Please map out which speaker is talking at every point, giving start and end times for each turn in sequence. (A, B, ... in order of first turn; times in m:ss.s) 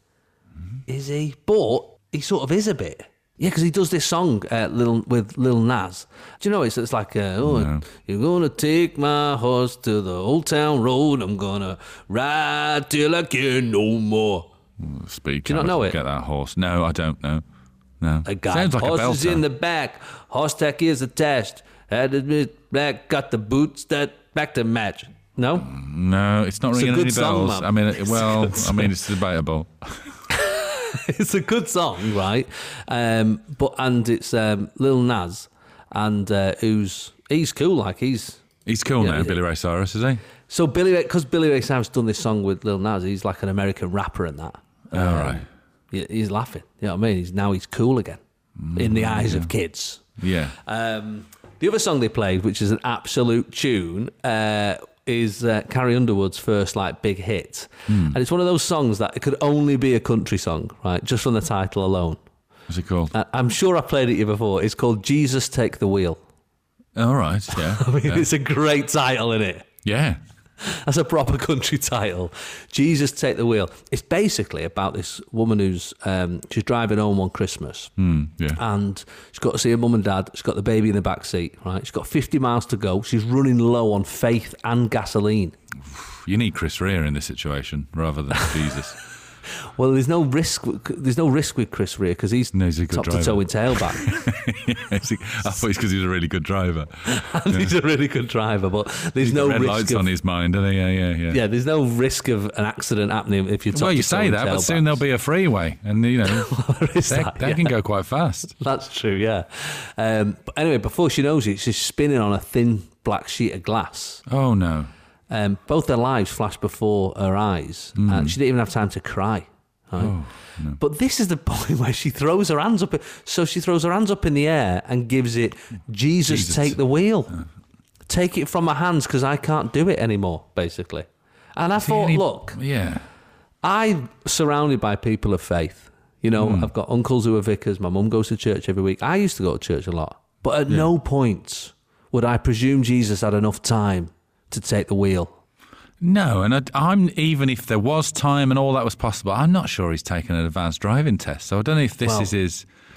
0:00.9-0:14.5 A
0:07.4-0:07.8 B
0:14.8-0:17.4 B
0:15.4-0:16.0 A
0:18.0-0:19.4 B
0:18.2-0:25.7 A
0:25.6-0:30.1 B
0:26.7-0:28.9 A
0:30.3-0:38.4 A
0:38.6-0:40.2 B
0:39.0-0:39.4 A
0:40.5-0:48.2 A
0:44.9-0:45.4 B
0:48.6-0:49.5 B
0:48.7-0:50.0 A
0:50.2-0:50.6 B
0:50.6-1:02.2 A
0:57.9-0:58.2 B
1:02.7-1:03.1 B
1:03.1-1:06.2 A
1:06.9-1:08.3 B
1:07.5-1:09.7 A
1:09.8-1:10.2 B
1:10.6-1:17.9 A
1:18.0-1:18.6 B
1:18.6-1:25.6 A
1:25.9-1:29.0 B
1:29.8-1:34.1 A
1:32.5-1:37.7 B
1:37.0-1:40.1 A
1:39.2-1:41.4 B
1:41.3-1:45.0 A
1:43.7-1:46.5 B
1:46.2-1:47.7 A
1:47.1-1:48.5 B
1:48.6-1:54.2 A
1:54.3-1:54.9 B
1:55.3-2:00.2 A
1:58.0-1:58.4 B
2:00.0-2:00.8 B
2:00.7-2:07.4 A
2:06.3-2:06.8 B
2:08.1-2:12.6 A
2:11.8-2:13.0 B
2:13.6-2:25.4 A
2:16.4-2:16.7 B
2:26.0-2:32.6 B
2:32.0-2:32.3 A